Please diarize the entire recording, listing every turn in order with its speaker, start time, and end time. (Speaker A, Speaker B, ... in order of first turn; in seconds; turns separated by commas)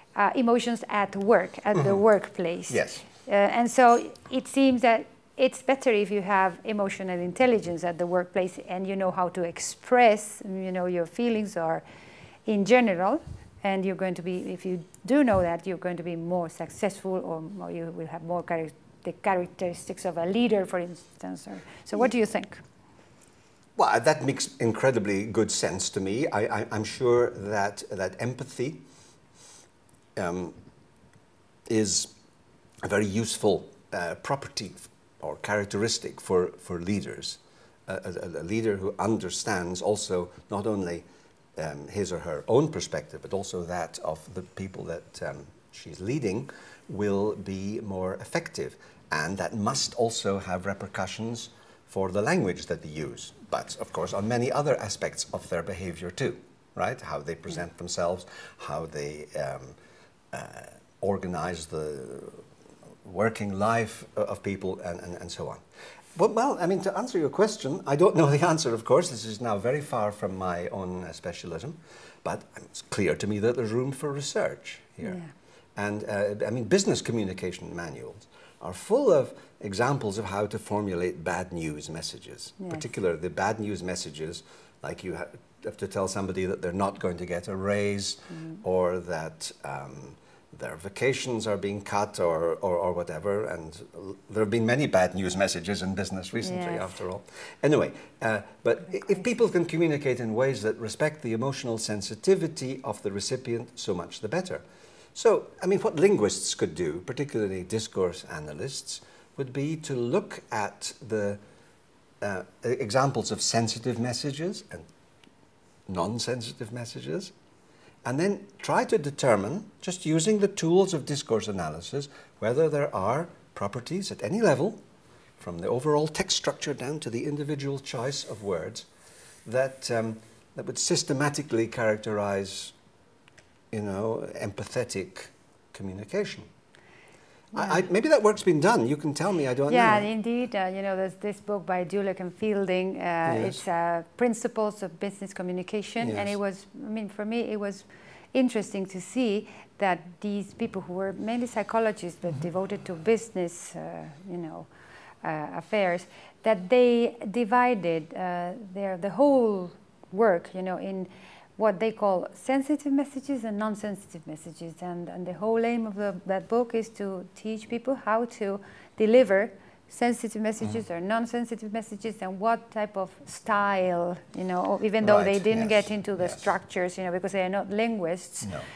Speaker A: 0.1-11.8, Speaker B: 1.8-2.0, Speaker B: 2.7-3.0, Speaker A: 12.5-22.6, Speaker B: 23.8-28.8, Speaker B: 30.2-30.6, Speaker B: 31.7-32.1, Speaker B: 32.8-41.0, Speaker B: 41.6-59.8, Speaker B: 60.3-62.4, Speaker B: 63.0-65.6, Speaker B: 66.2-75.2, Speaker A: 75.0-75.3, Speaker B: 75.8-104.6, Speaker A: 96.4-97.0, Speaker B: 105.2-111.4, Speaker B: 112.2-114.9, Speaker B: 115.9-117.3, Speaker B: 118.0-124.8, Speaker B: 125.4-128.9, Speaker B: 129.4-132.7, Speaker B: 133.7-136.5, Speaker B: 137.6-140.1, Speaker A: 139.7-154.7, Speaker B: 143.3-143.6, Speaker B: 146.0-146.4, Speaker A: 155.2-178.6, Speaker B: 175.0-176.5